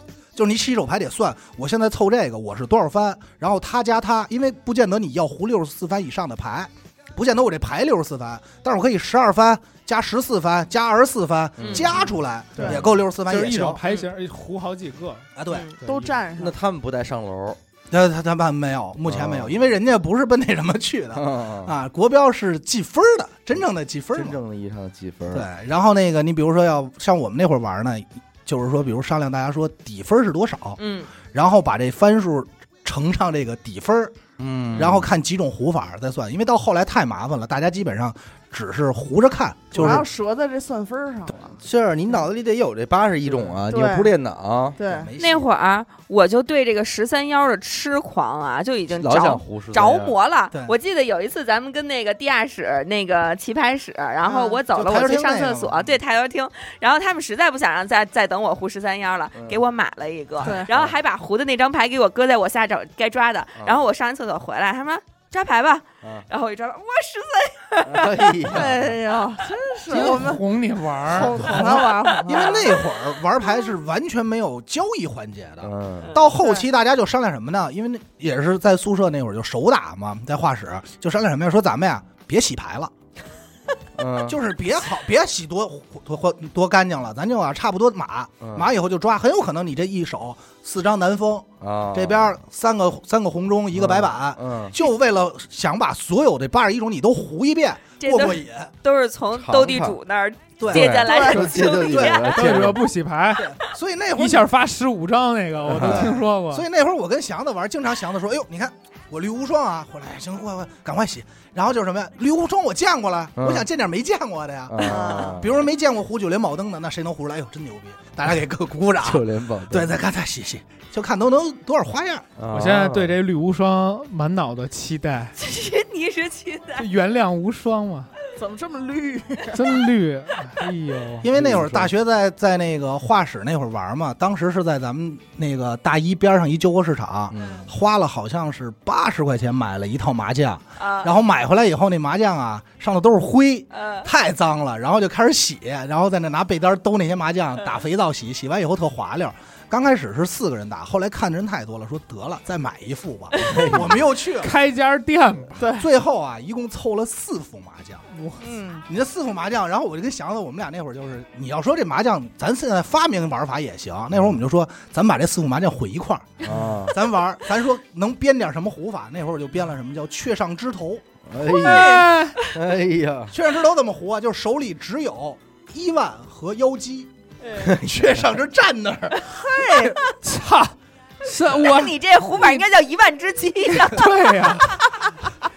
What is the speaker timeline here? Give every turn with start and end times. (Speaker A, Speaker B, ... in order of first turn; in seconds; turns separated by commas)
Speaker A: 0.3-13.8, Speaker B: 11.6-12.1, Speaker C: 11.6-11.9, Speaker D: 12.6-12.8, Speaker E: 12.7-15.3, Speaker A: 15.4-15.7, Speaker C: 15.5-15.8, Speaker E: 15.8-16.2, Speaker D: 15.9-16.6, Speaker B: 16.4-17.6, Speaker A: 17.9-24.4, Speaker B: 19.1-19.7, Speaker B: 21.1-21.7, Speaker B: 24.1-25.5, Speaker A: 25.3-30.8, Speaker C: 30.8-31.1, Speaker A: 31.3-34.2, Speaker B: 34.4-35.1, Speaker A: 34.8-40.1, Speaker D: 39.7-41.6, Speaker B: 39.8-40.0, Speaker B: 41.6-44.8, Speaker D: 43.7-44.1, Speaker D: 44.8-45.1, Speaker A: 44.8-45.5, Speaker C: 45.2-68.5, Speaker B: 49.0-50.1, Speaker D: 54.2-54.6, Speaker A: 54.7-55.9, Speaker D: 60.4-60.7, Speaker B: 67.8-68.9, Speaker D: 68.5-70.5, Speaker E: 69.9-71.4, Speaker D: 71.0-72.7, Speaker A: 71.1-82.9, Speaker C: 71.5-72.6, Speaker B: 75.6-76.1, Speaker D: 76.4-76.7, Speaker B: 84.0-84.4, Speaker A: 84.3-98.7, Speaker B: 88.4-88.7, Speaker B: 91.6-92.3, Speaker B: 93.7-94.8, Speaker C: 98.0-102.4, Speaker B: 99.4-100.0, Speaker A: 100.6-101.2, Speaker B: 100.7-102.8, Speaker D: 101.1-101.6, Speaker E: 102.1-103.5, Speaker A: 103.4-104.5, Speaker E: 104.2-106.7, Speaker B: 105.7-106.1, Speaker A: 105.7-122.3, Speaker B: 113.4-113.7, Speaker B: 114.7-115.6, Speaker C: 114.8-115.2, Speaker D: 114.8-115.4, Speaker B: 119.0-119.9, Speaker B: 122.4-123.2, Speaker E: 122.5-125.3, Speaker C: 125.4-126.9, Speaker E: 126.8-128.1, Speaker D: 128.4-129.7, Speaker E: 129.5-131.3, Speaker A: 131.2-154.5, Speaker B: 131.3-131.9, Speaker B: 137.3-137.7, Speaker C: 140.8-141.1, Speaker C: 143.7-144.1, Speaker C: 153.3-153.6, Speaker B: 153.4-153.9, Speaker E: 154.4-155.6, Speaker D: 155.6-155.9, Speaker A: 155.8-158.0, Speaker E: 158.1-158.4, Speaker D: 158.4-158.8, Speaker A: 158.9-171.0, Speaker B: 166.4-167.0, Speaker B: 171.3-173.3, Speaker D: 171.4-172.1, Speaker E: 171.6-172.5, Speaker A: 173.3-177.1, Speaker B: 177.6-178.2, Speaker A: 177.7-179.3, Speaker D: 179.2-180.0, Speaker E: 180.0-182.0, Speaker C: 181.6-184.3, Speaker E: 183.8-184.8